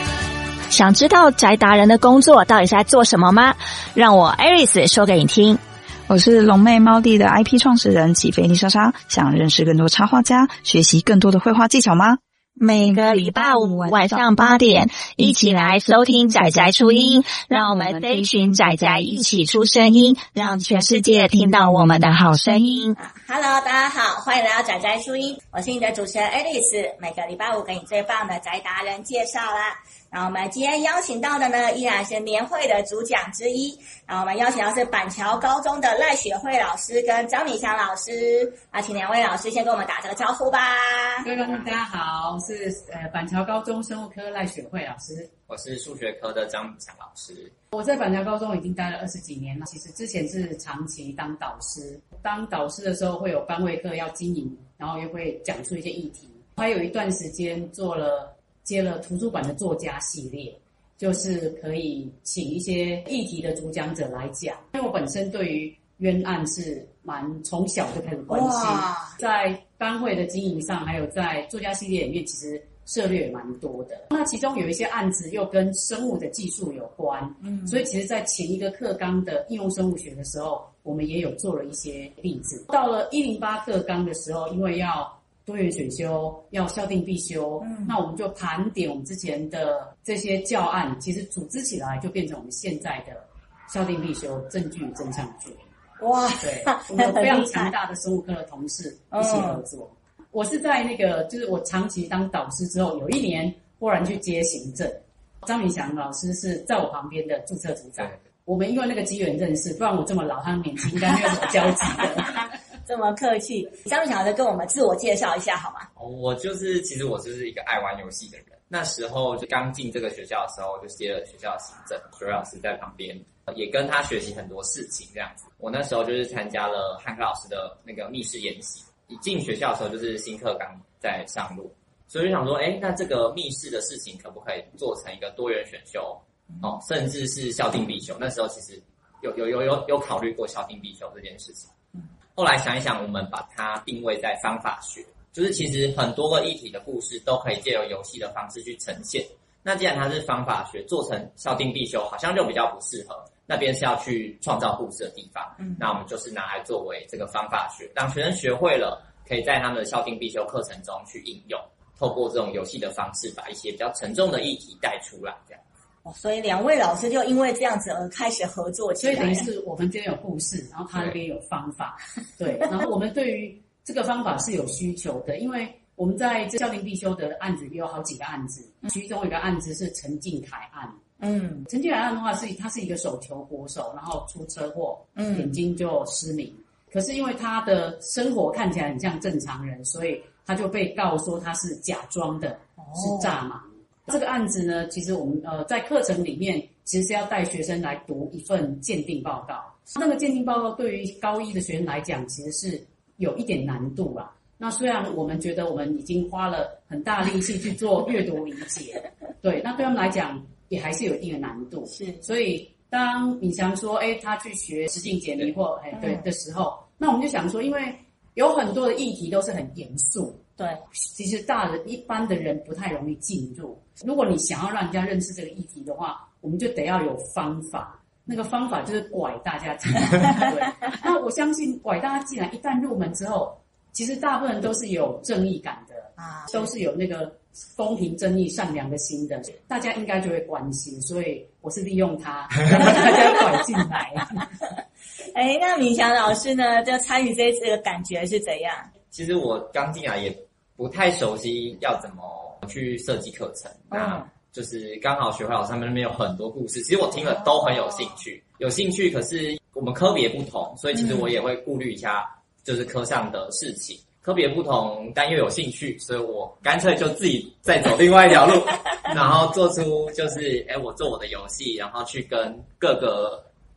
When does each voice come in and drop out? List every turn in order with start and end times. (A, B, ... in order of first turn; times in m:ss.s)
0:00.7-0:05.6 A
0:06.1-0:12.2 B
0:12.6-0:23.0 A
0:23.0-0:41.3 C
0:41.2-0:45.3 D
0:45.5-0:47.5 E
0:47.7-1:35.7 D
1:08.3-1:09.2 C
1:17.4-1:17.8 C
1:27.6-1:27.9 C
1:36.0-1:37.7 C
1:36.4-1:52.4 D
1:39.1-1:39.6 C
1:51.8-1:55.9 C
1:56.0-2:21.7 E
2:22.4-2:45.6 E
2:46.0-2:49.4 C
2:49.0-3:01.0 D
3:01.2-3:01.6 C
3:01.6-3:40.4 D
3:05.2-3:05.6 C
3:12.8-3:13.4 C
3:31.9-3:32.2 C
3:35.9-3:36.2 C
3:40.6-3:40.8 C
3:41.0-4:04.5 D
3:56.2-3:56.7 C
4:02.8-4:03.4 C
4:05.3-4:08.9 C
4:09.1-4:33.4 E
4:13.9-4:14.3 C
4:21.0-4:21.2 C